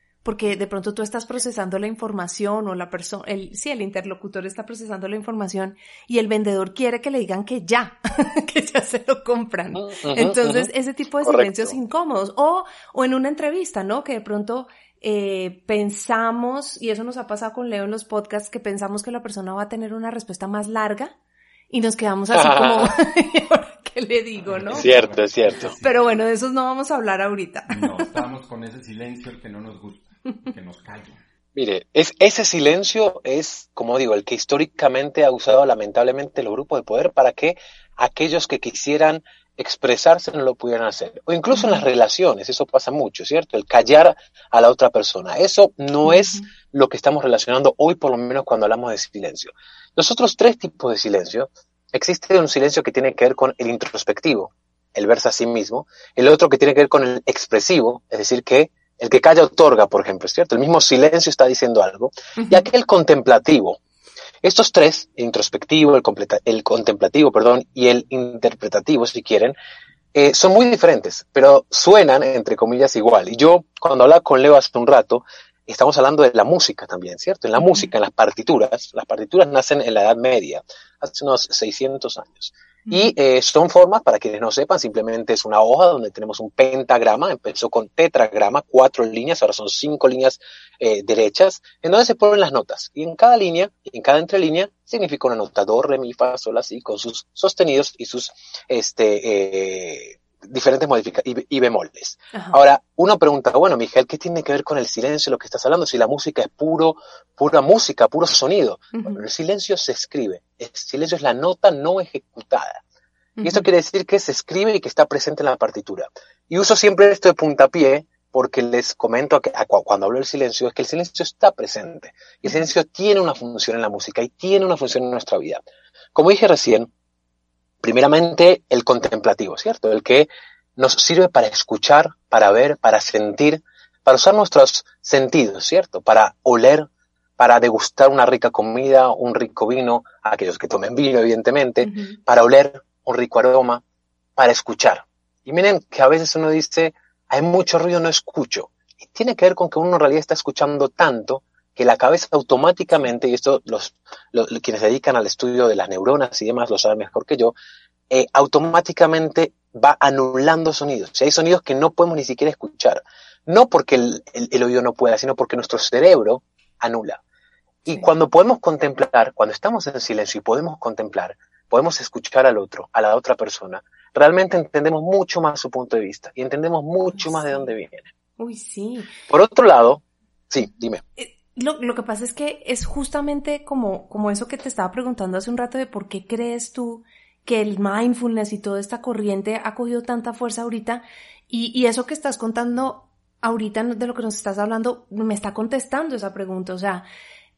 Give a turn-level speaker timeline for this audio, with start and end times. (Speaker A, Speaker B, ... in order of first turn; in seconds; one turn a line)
Speaker A: 0.2-21.1
Speaker B: 9.7-10.7
Speaker B: 11.2-11.8
Speaker A: 21.7-24.9
Speaker B: 22.3-22.9
Speaker C: 24.4-26.1
Speaker B: 24.7-25.8
Speaker A: 25.5-28.1
Speaker C: 27.7-31.2
Speaker B: 31.6-63.8
Speaker A: 41.5-41.9
Speaker A: 46.0-46.4
Speaker A: 62.4-62.7
Speaker B: 64.4-69.5
Speaker B: 70.1-112.8
Speaker A: 77.6-77.9
Speaker A: 82.9-83.1
Speaker A: 102.3-102.6
Speaker A: 108.9-109.2
Speaker A: 113.4-113.7
Speaker B: 113.4-125.6
Speaker B: 126.2-126.9
Speaker B: 127.8-143.8
Speaker A: 141.8-142.2
Speaker B: 144.4-157.5
Speaker B: 158.1-167.2
Speaker B: 167.9-178.1
Speaker A: 177.2-177.7
Speaker A: 178.4-179.1
Speaker B: 179.3-181.0
Speaker A: 181.2-197.1